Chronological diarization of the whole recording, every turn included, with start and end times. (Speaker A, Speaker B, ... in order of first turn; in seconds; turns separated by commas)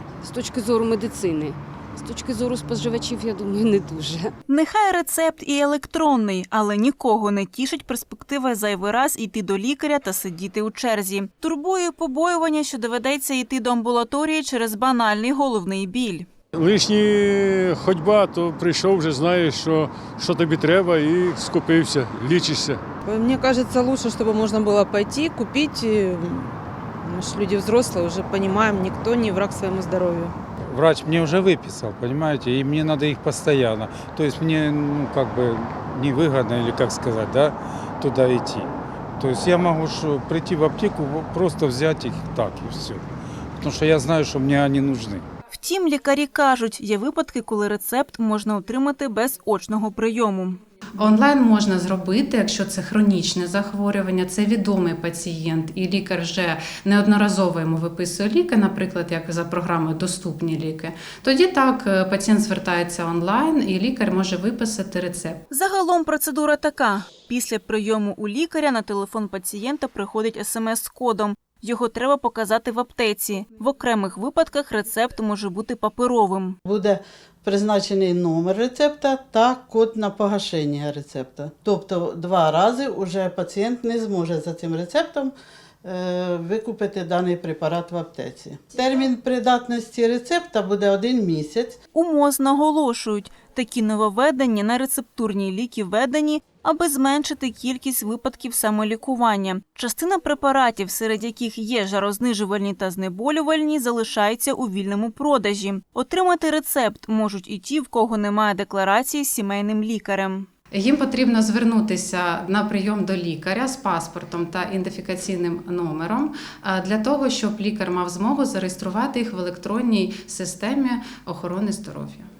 Speaker A: 0.2-4.3, Speaker B: 4.5-16.3, Speaker C: 16.5-22.8, Speaker D: 23.1-26.5, Speaker D: 27.0-30.4, Speaker E: 30.7-43.0, Speaker E: 43.6-45.2, Speaker B: 45.5-50.6, Speaker F: 51.0-65.4, Speaker B: 65.5-76.6, Speaker G: 76.7-91.8, Speaker B: 91.9-110.5, Speaker F: 110.7-122.3